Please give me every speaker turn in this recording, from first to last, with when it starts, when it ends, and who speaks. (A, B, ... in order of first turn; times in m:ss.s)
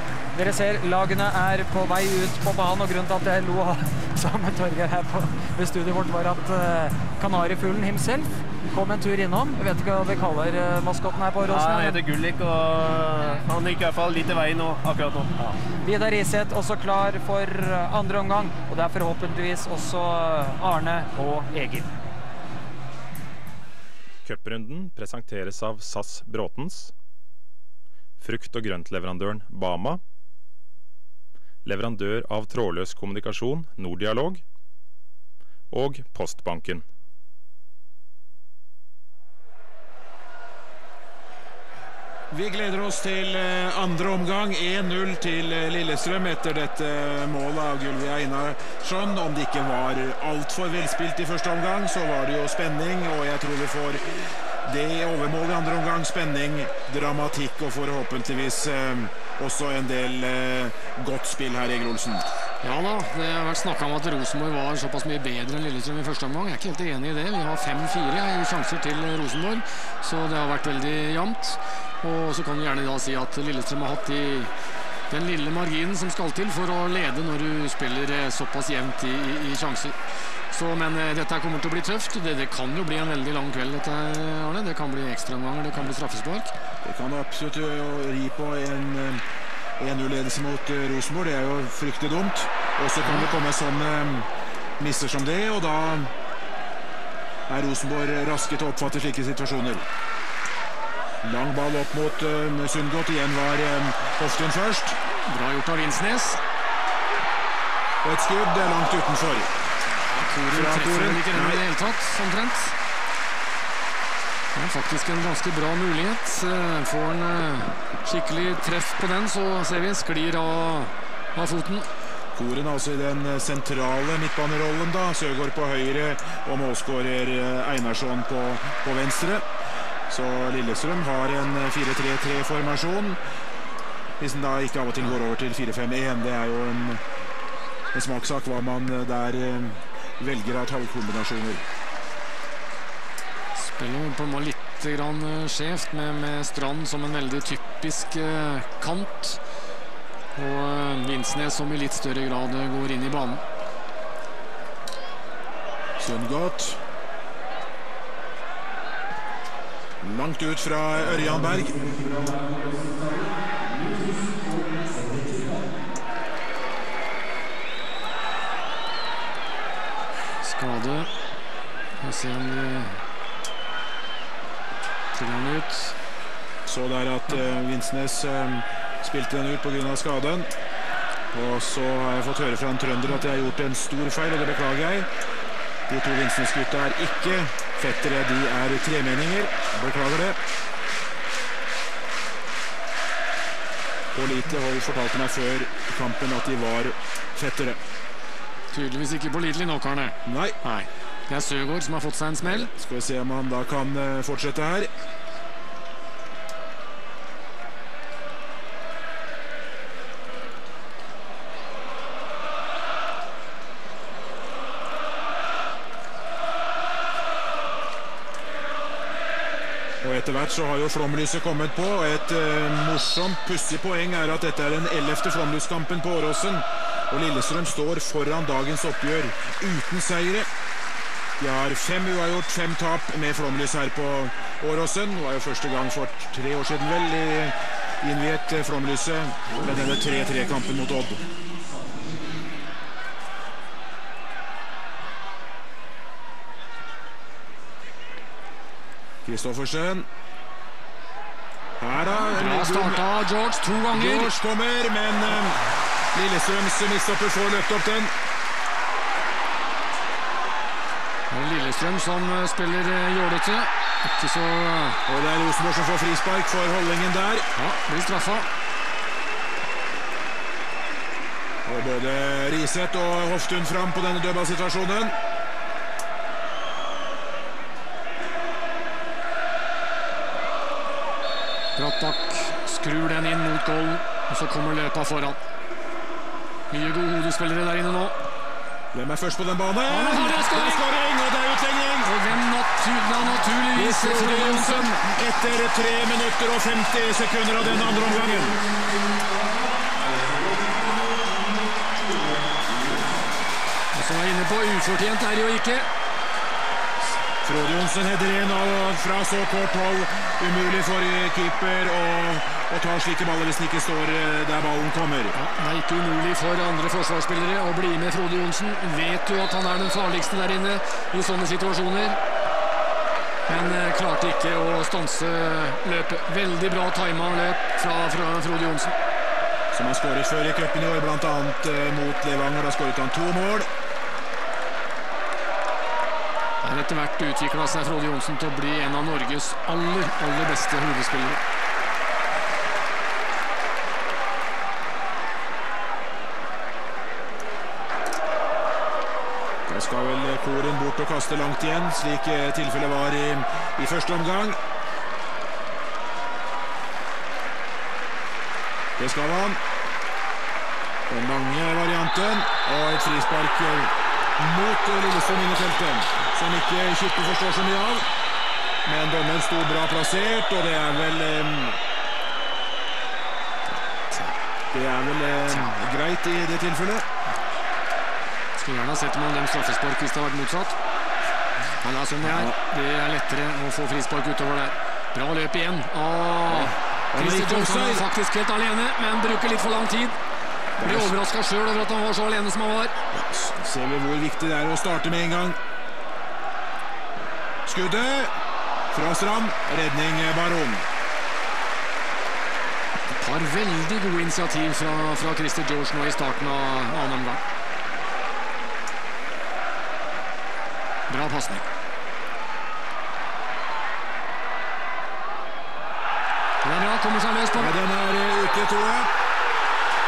0:00.3-0:12.0 A
0:11.4-0:15.4 B
0:15.8-0:21.9 A
0:24.2-0:26.9 C
0:28.2-0:30.0 C
0:31.6-0:34.4 C
0:35.7-0:36.8 C
0:42.3-1:02.3 D
1:02.6-1:14.5 E
1:15.1-1:20.0 E
1:20.5-1:26.5 E
1:26.8-1:29.2 D
1:29.8-1:34.3 D
1:34.8-1:36.1 D
1:37.5-1:39.9 D
1:41.2-1:45.0 D
1:45.3-1:46.4 E
1:48.0-1:49.5 D
1:50.1-1:52.7 E
1:50.5-1:51.6 D
1:54.6-2:01.9 E
2:02.3-2:09.4 D
2:10.1-2:13.2 D
2:14.2-2:17.0 D
2:17.9-2:21.6 D
2:23.6-2:29.4 E
2:30.4-2:33.4 E
2:36.0-2:36.8 D
2:40.0-2:41.8 D
2:50.4-2:51.1 E
2:52.0-2:53.0 E
2:55.1-2:56.0 E
2:56.7-3:00.5 D
3:01.3-3:05.1 D
3:05.9-3:10.4 D
3:14.1-3:17.8 D
3:18.7-3:22.7 E
3:20.2-3:20.6 D
3:22.4-3:24.9 D
3:40.0-3:50.5 D
3:51.4-4:01.2 D
4:09.2-4:10.1 D
4:11.8-4:13.1 D
4:12.4-4:14.4 E
4:13.9-4:15.6 D
4:16.1-4:18.1 D
4:21.3-4:25.0 E
4:25.1-4:27.5 D
4:27.6-4:28.5 E
4:31.7-4:35.2 D
4:41.8-4:45.4 E
4:46.7-4:48.1 E
4:48.9-4:52.1 D
4:49.9-4:50.8 E
4:52.0-4:54.9 E
4:53.7-4:58.6 D
5:03.9-5:05.9 E
5:07.4-5:15.3 D
5:15.3-5:22.2 E
5:23.5-5:29.0 E
5:29.7-5:33.7 D
5:36.6-5:41.4 E
5:49.7-5:54.6 D
5:59.0-5:59.6 D
6:01.1-6:08.1 D
6:08.8-6:11.8 D
6:14.1-6:14.4 E
6:14.7-6:17.0 D
6:15.5-6:15.8 E
6:18.6-6:20.7 E
6:21.8-6:30.2 E
6:22.2-6:22.6 D
6:26.5-6:28.0 D
6:30.8-6:31.1 D
6:30.8-6:33.0 E
6:33.1-6:35.6 D
6:37.7-6:38.3 D
6:38.9-6:40.8 D
6:43.1-6:47.4 E
6:51.1-6:51.7 E
6:56.6-6:57.7 E
6:57.6-6:59.1 D